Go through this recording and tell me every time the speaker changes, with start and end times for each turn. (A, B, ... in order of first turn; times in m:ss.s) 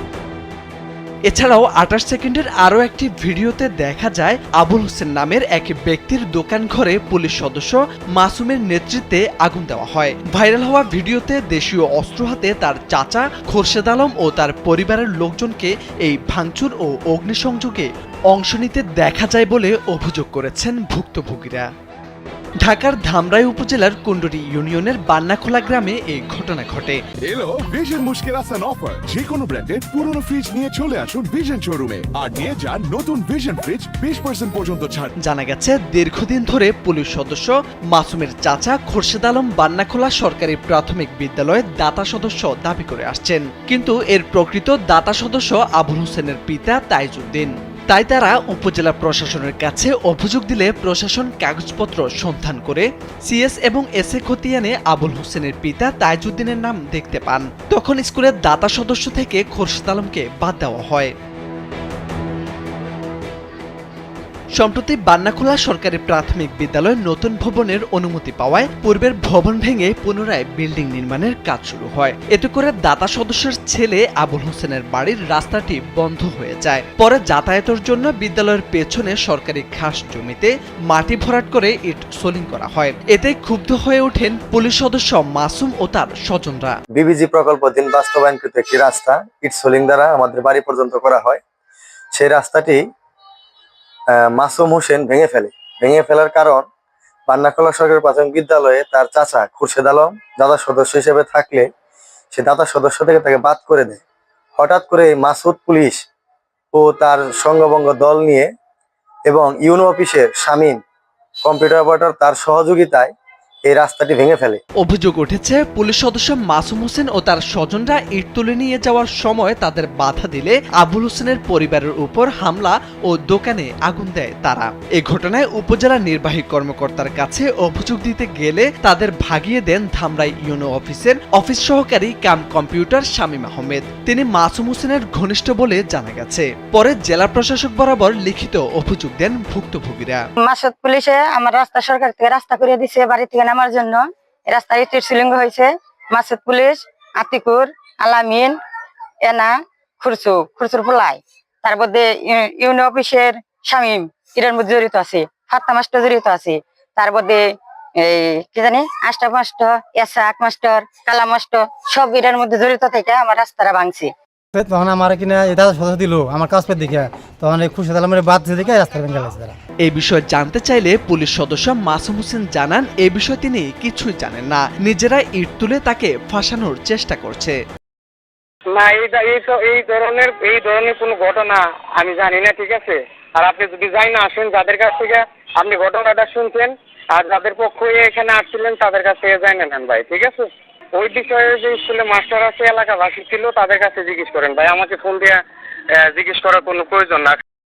0:01.3-0:21.7 A
0:22.6-0:27.0 A
0:27.2-0:35.1 B
0:35.2-1:01.1 A
1:04.6-1:26.8 A
1:26.9-1:31.4 C
1:32.1-1:32.8 C
1:34.1-1:36.7 C
1:37.3-1:41.7 C
1:42.3-1:44.0 C
1:44.6-1:46.0 C
1:46.7-1:48.5 C
1:49.3-1:50.8 C
1:51.4-1:53.1 C
1:53.7-1:54.6 C
1:54.8-2:20.2 A
2:20.4-2:28.6 D
2:29.3-2:37.4 D
2:38.0-2:44.1 D
2:44.5-2:49.6 E
2:49.8-2:57.6 A
2:58.7-3:15.4 F
3:16.0-3:17.4 F